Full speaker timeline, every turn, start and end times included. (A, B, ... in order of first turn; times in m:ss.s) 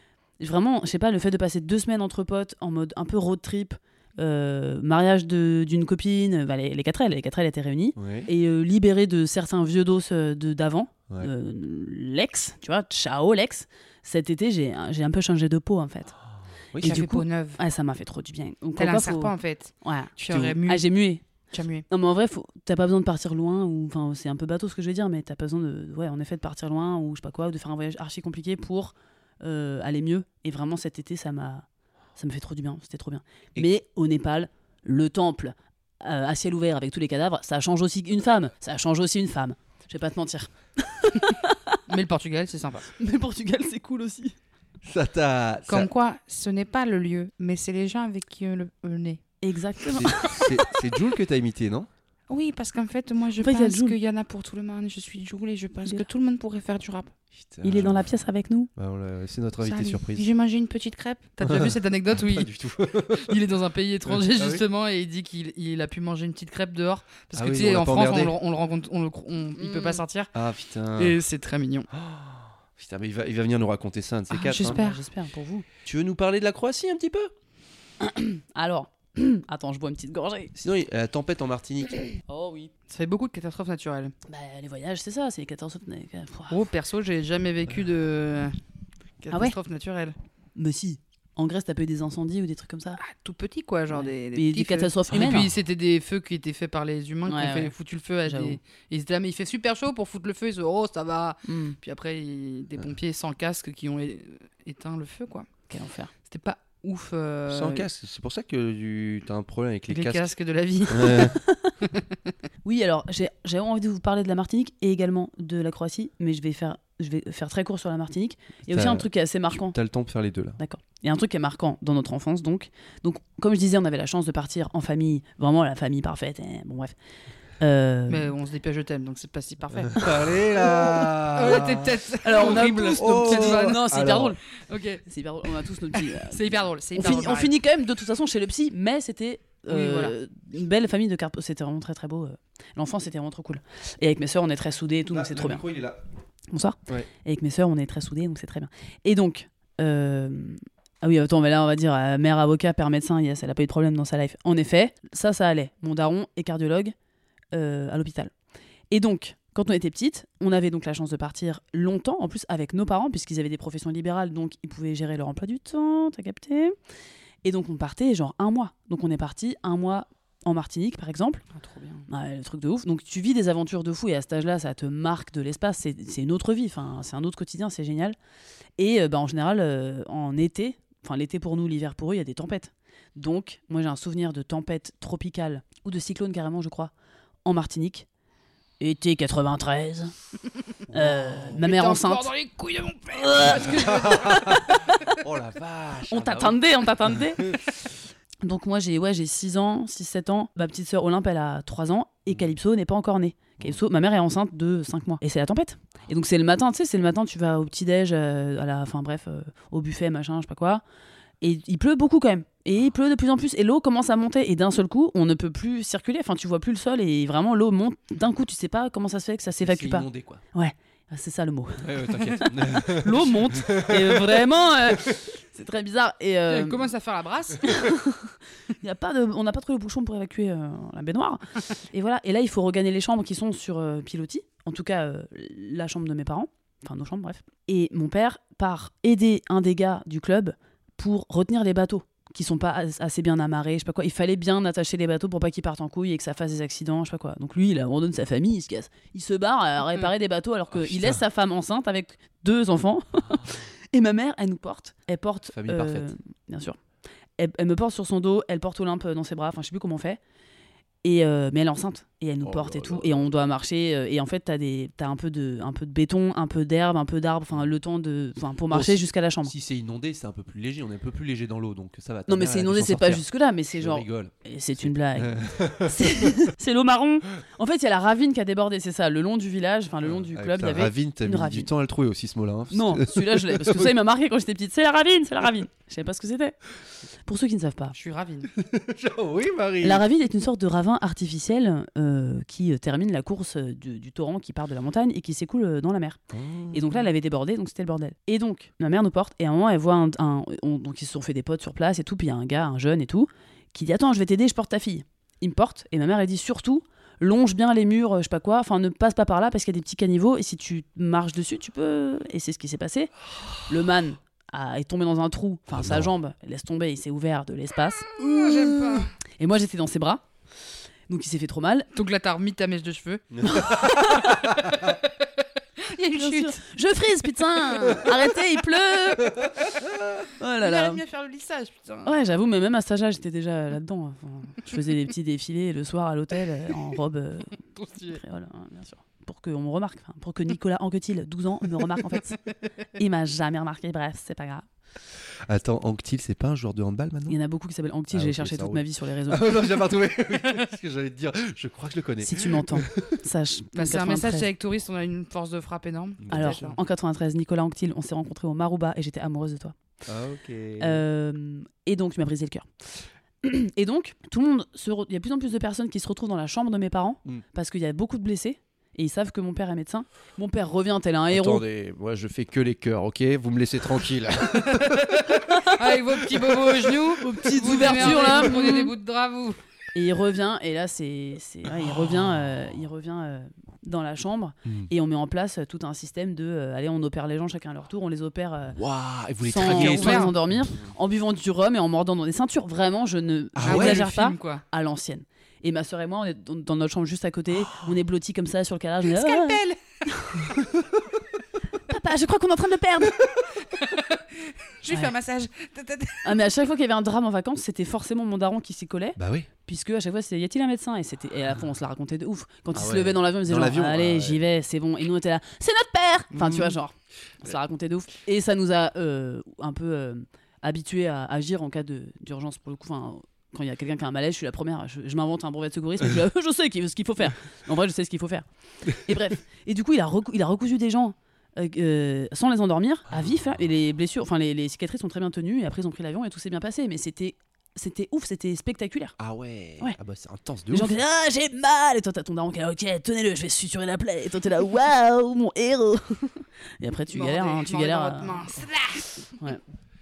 0:00.4-0:16.2 A
0:08.0-0:08.3 B
0:16.7-0:17.1 B
0:16.8-0:17.6 C
0:16.8-0:21.2 A
0:18.8-0:20.9 C
0:20.3-0:20.6 B
0:21.5-0:21.8 C
0:21.9-0:31.6 A
0:32.2-0:41.8 A
0:41.9-0:42.9 C
0:43.0-0:44.4 A
0:44.8-0:45.9 B
0:45.7-0:49.2 C
0:49.4-0:50.6 A
0:49.9-0:51.9 B
0:52.3-0:57.1 C
0:53.4-0:54.0 A
0:57.4-0:58.1 B
0:57.6-0:58.7 A
0:58.8-1:00.3 B
0:59.6-1:10.3 C
1:01.4-1:03.4 B
1:04.1-1:04.6 B
1:07.4-1:08.4 B
1:09.6-1:10.0 A
1:10.3-1:11.2 B
1:11.0-1:11.9 C
1:11.9-1:14.8 B
1:14.3-1:15.7 A
1:14.5-1:15.0 C
1:15.8-1:17.3 B
1:18.0-1:20.6 A
1:20.6-1:22.2 B
1:22.3-1:22.7 A
1:22.9-1:24.1 C
1:24.3-1:26.6 A
1:26.5-1:28.6 C
1:29.2-1:30.2 C
1:30.6-1:33.0 A
1:33.0-1:45.5 C
1:33.9-1:35.5 A
1:37.3-1:37.7 A
1:38.3-1:38.6 A
1:41.4-1:41.8 A
1:45.7-1:46.1 A
1:46.3-1:47.8 C
1:47.5-1:50.3 B
1:49.9-1:52.1 C
1:50.9-1:51.4 B
1:51.2-1:51.7 A
1:52.6-1:59.8 A
1:58.7-2:00.6 B
2:00.6-2:06.9 A
2:07.6-2:08.3 A
2:08.1-2:15.0 C
2:09.8-2:14.4 B
2:12.2-2:14.4 A
2:15.1-2:25.6 A
2:15.9-2:17.6 C
2:19.7-2:20.1 C
2:25.1-2:26.0 B
2:26.5-2:37.0 A
2:37.5-2:38.3 A
2:38.9-2:46.8 A
2:47.4-2:51.4 A
2:51.5-2:52.1 C
2:52.1-2:58.2 A
2:58.8-3:06.9 A
3:07.4-3:08.1 A
3:08.8-3:10.1 A
3:10.9-3:11.7 B
3:10.9-3:12.3 A
3:11.5-3:14.5 C
3:13.2-3:15.0 A
3:13.5-3:17.6 B
3:16.1-3:17.5 A
3:18.4-3:30.8 A
3:31.4-3:46.9 A
3:39.6-3:40.4 B
3:41.8-3:45.2 B
3:46.5-3:47.6 C
3:47.6-4:16.8 A
4:10.7-4:11.2 B
4:15.5-4:16.1 B
4:17.4-4:20.2 A
4:21.0-4:29.5 A
4:22.4-4:23.2 B
4:28.7-4:33.2 B
4:32.3-4:41.7 A
4:33.8-4:36.4 B
4:40.0-4:43.9 B
4:42.7-4:46.6 A
4:47.2-4:48.0 A
4:47.9-4:48.5 C
4:48.5-4:50.0 B
4:49.8-4:56.2 A
4:56.3-4:57.0 B
4:56.7-5:13.1 A
5:13.6-5:20.2 A
5:15.7-5:16.1 B
5:18.2-5:19.1 C
5:21.1-5:21.9 A
5:21.9-5:24.1 C
5:23.3-5:24.9 B
5:23.4-5:24.5 A
5:24.7-5:25.1 C
5:25.8-5:26.6 C
5:26.2-5:29.5 A
5:29.2-5:30.2 B
5:30.4-5:31.0 A
5:30.6-5:32.2 C
5:32.0-5:42.4 A
5:37.8-5:38.2 C
5:43.0-5:44.7 A
5:45.4-5:47.4 B
5:47.3-5:49.5 A
5:48.1-5:53.2 B
5:52.2-5:54.5 A
5:53.8-5:56.8 C
5:56.2-5:56.7 B
5:56.3-5:59.8 A
6:00.1-6:01.0 B
6:00.8-6:11.6 A
6:11.3-6:15.4 B
6:15.6-6:19.6 C
6:16.2-6:17.0 B
6:17.2-6:18.9 A
6:17.6-6:18.5 B
6:19.9-6:28.8 A
6:21.8-6:22.5 B
6:28.8-6:30.9 B
6:29.4-6:40.6 A
6:29.6-6:30.3 C
6:33.6-6:34.0 B
6:33.6-6:34.6 C
6:39.0-6:39.8 C
6:41.8-6:43.3 A
6:43.6-6:46.4 C
6:44.9-6:45.1 A
6:46.2-7:19.2 A
6:49.2-6:49.5 B
6:52.7-6:54.4 B
6:56.4-6:56.8 C
7:19.2-7:21.0 B
7:20.7-7:28.6 A
7:27.1-7:29.4 C